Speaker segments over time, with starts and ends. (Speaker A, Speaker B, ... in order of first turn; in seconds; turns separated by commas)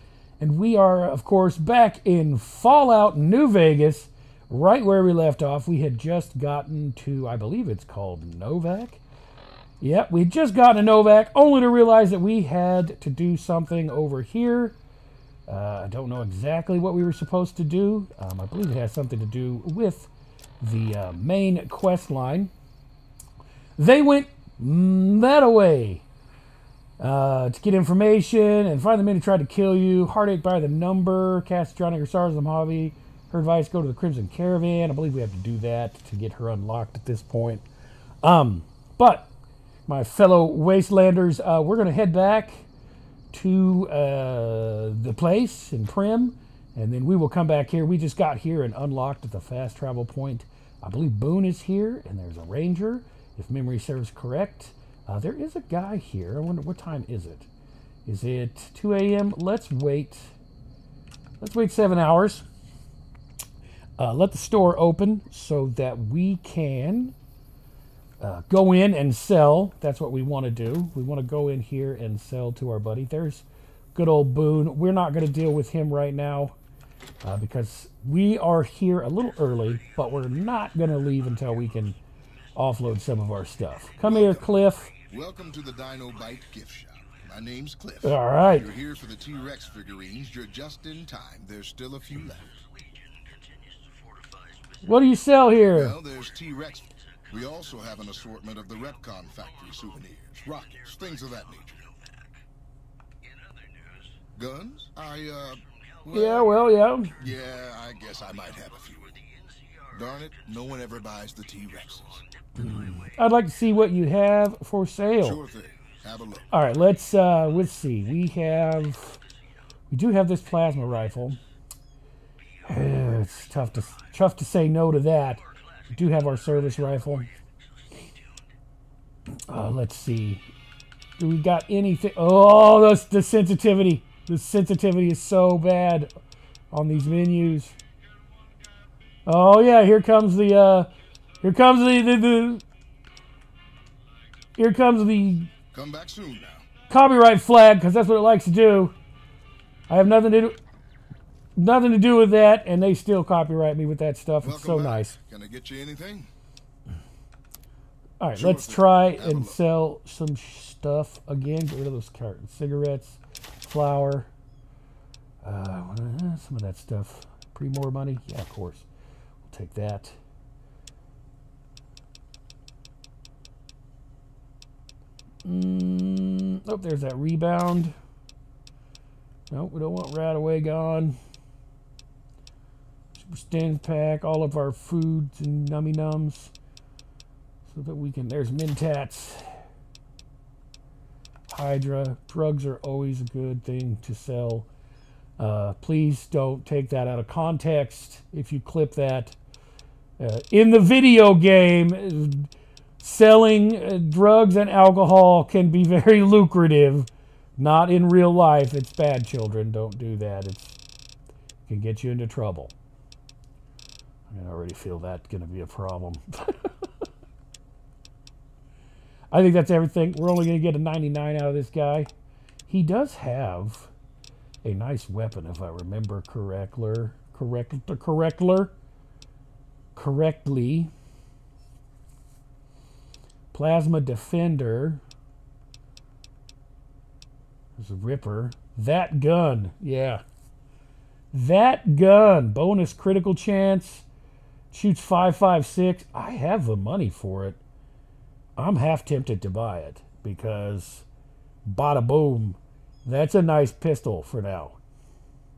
Speaker A: 0.4-9.0, Speaker A: 9.8-14.8, Speaker A: 15.5-22.5, Speaker A: 23.8-26.1, Speaker A: 27.0-37.6, Speaker A: 38.2-39.3, Speaker A: 39.9-42.7, Speaker A: 43.3-57.5, Speaker A: 58.0-60.3, Speaker A: 61.4-62.5, Speaker A: 64.0-67.2, Speaker A: 68.2-76.6, Speaker A: 77.2-82.0, Speaker A: 82.5-84.9, Speaker B: 84.0-84.5, Speaker B: 85.1-92.5, Speaker A: 88.0-88.7, Speaker A: 94.8-96.0, Speaker B: 95.7-101.8, Speaker B: 104.4-106.5, Speaker A: 106.1-107.2, Speaker B: 107.2-109.1, Speaker B: 109.9-112.3, Speaker A: 112.6-115.4, Speaker B: 115.2-116.5, Speaker A: 116.5-119.2, Speaker A: 119.9-121.4, Speaker A: 122.7-127.3, Speaker A: 129.3-130.4, Speaker A: 131.2-136.1, Speaker A: 136.7-137.8, Speaker A: 139.3-142.6, Speaker A: 144.6-145.5, Speaker B: 145.7-146.7, Speaker A: 146.9-149.0, Speaker A: 149.9-150.6, Speaker A: 151.6-155.2, Speaker B: 154.4-156.3, Speaker A: 158.2-164.3, Speaker B: 158.3-159.6, Speaker A: 165.4-168.9, Speaker A: 169.4-170.2, Speaker A: 175.4-178.0, Speaker A: 179.5-181.2, Speaker A: 183.1-186.5, Speaker A: 187.7-189.6, Speaker A: 191.5-194.7, Speaker A: 195.4-199.4, Speaker A: 200.2-210.8, Speaker A: 211.7-212.7, Speaker A: 214.3-217.1, Speaker A: 219.3-222.1, Speaker A: 222.7-223.9, Speaker A: 224.6-228.8, Speaker A: 229.9-230.9, Speaker A: 233.5-235.0, Speaker A: 237.8-240.2, Speaker A: 241.3-244.1, Speaker A: 244.7-247.6, Speaker A: 248.6-251.1, Speaker A: 251.7-254.8